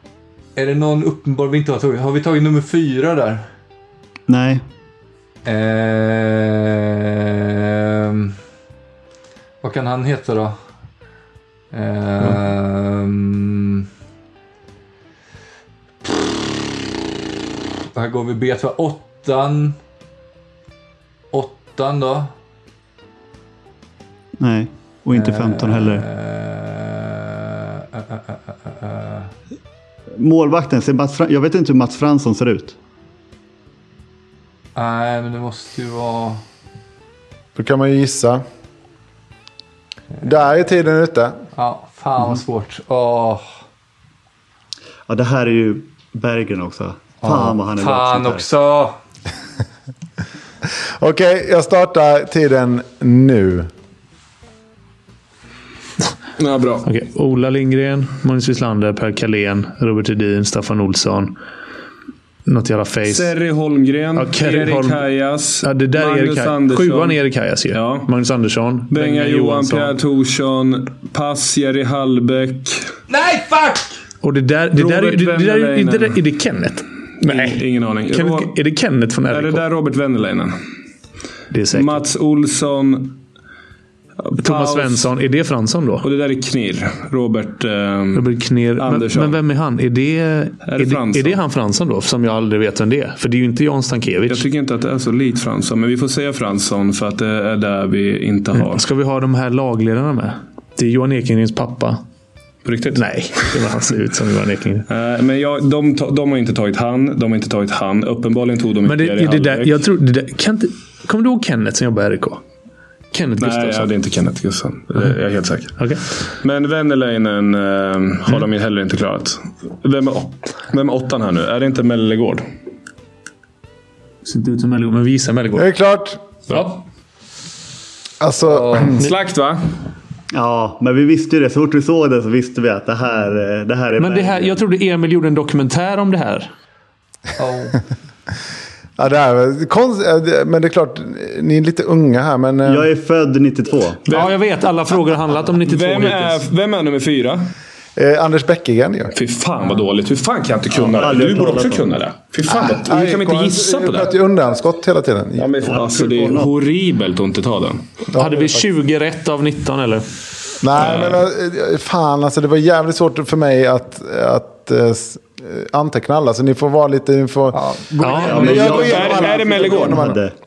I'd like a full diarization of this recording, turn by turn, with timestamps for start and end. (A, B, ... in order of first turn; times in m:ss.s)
0:00.6-0:03.5 A
0:04.3-0:04.6 B
0:05.4-0:08.4 A
0:09.6-0:10.6 A
0:11.7-0:13.9 A
0:17.9-0:19.8 A
0:21.3-0:22.3 A
0:24.4-0:26.0 B
0:25.1-0:29.3 A
0:30.2-0:32.7 B
0:34.7-0:36.4 A
0:37.5-0:38.4 C
0:40.2-0:41.4 C
0:41.5-0:43.5 A
0:45.1-0:48.4 B
0:47.2-0:49.0 A
0:51.0-0:53.7 C
0:56.4-0:56.9 D
0:56.8-1:01.4 E
1:02.4-1:03.3 E
1:03.0-1:07.2 D
1:04.2-1:05.0 E
1:05.6-1:10.0 E
1:07.7-1:08.1 D
1:08.9-1:12.8 D
1:13.1-1:13.9 A
1:14.2-1:19.6 E
1:14.7-1:16.2 D
1:17.2-1:18.5 D
1:19.3-1:20.6 D
1:21.5-1:22.0 E
1:21.7-1:23.2 D
1:24.2-1:25.1 D
1:24.4-1:26.0 E
1:26.0-1:29.4 D
1:28.1-1:34.4 E
1:30.6-1:31.4 D
1:34.3-1:38.8 D
1:38.6-1:42.0 E
1:42.6-1:43.4 D
1:42.9-1:44.9 E
1:44.9-1:49.8 D
1:48.8-1:52.4 E
1:53.1-1:53.9 E
1:53.4-1:55.9 D
1:55.8-1:56.0 E
1:56.4-2:02.4 D
2:04.2-2:05.7 E
2:05.6-2:06.2 C
2:06.5-2:06.8 E
2:08.2-2:09.0 C
2:08.4-2:09.0 A
2:09.0-2:09.7 D
2:10.3-2:14.6 B
2:14.0-2:16.5 E
2:17.4-2:17.8 A
2:19.0-2:22.9 C
2:22.6-2:24.1 B
2:24.1-2:26.4 E
2:25.6-2:27.5 D
2:28.0-2:29.1 C
2:29.1-2:34.1 D
2:30.7-2:31.9 B
2:32.6-2:35.7 C
2:35.4-2:37.8 D
2:35.6-2:36.5 B
2:38.1-2:38.6 C
2:38.2-2:40.1 E
2:40.6-2:47.6 C
2:40.8-2:41.1 A
2:47.5-2:49.0 A
2:48.0-2:48.4 E
2:48.2-2:50.3 B
2:48.2-2:50.2 C
2:48.6-2:50.1 D